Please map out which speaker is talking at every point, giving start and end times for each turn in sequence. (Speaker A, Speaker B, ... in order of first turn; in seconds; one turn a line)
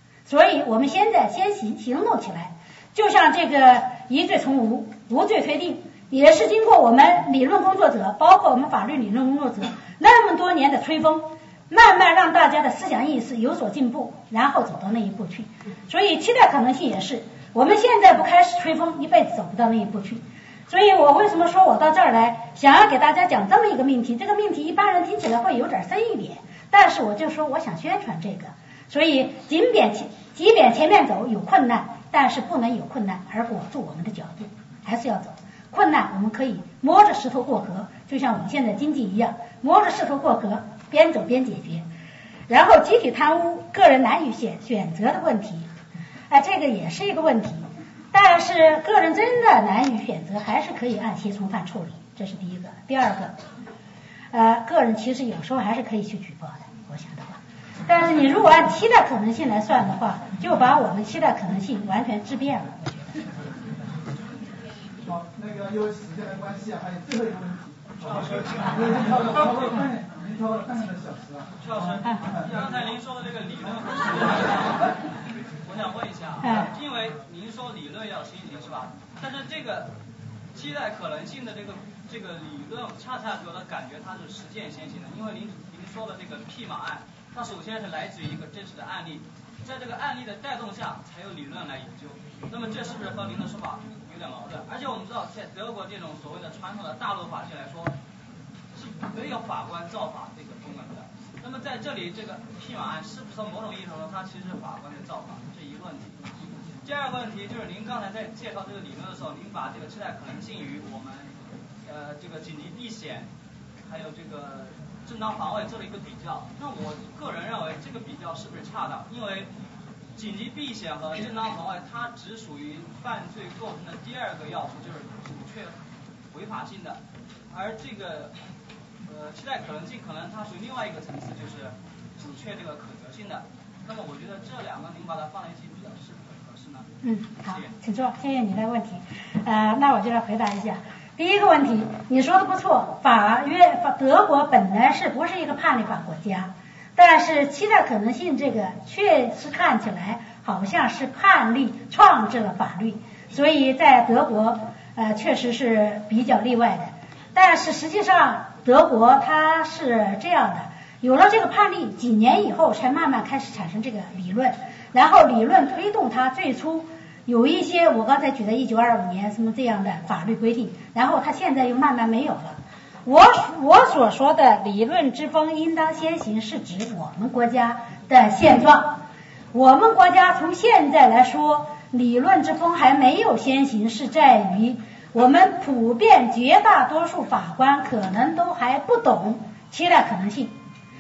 Speaker A: 0.2-41.9
Speaker A: 42.5-45.7
Speaker A: 46.3-53.4
Speaker A: 54.3-63.2
Speaker B: 65.0-72.6
Speaker C: 68.0-69.2
Speaker C: 71.6-75.0
Speaker C: 75.6-79.9
Speaker A: 76.4-76.7
Speaker C: 80.5-98.0
Speaker C: 98.7-113.3
Speaker C: 113.8-119.5
Speaker C: 120.1-125.8
Speaker C: 126.3-127.0
Speaker C: 127.5-128.3
Speaker C: 129.1-136.9
Speaker A: 137.0-179.0
Speaker C: 137.4-137.8
Speaker A: 179.5-190.6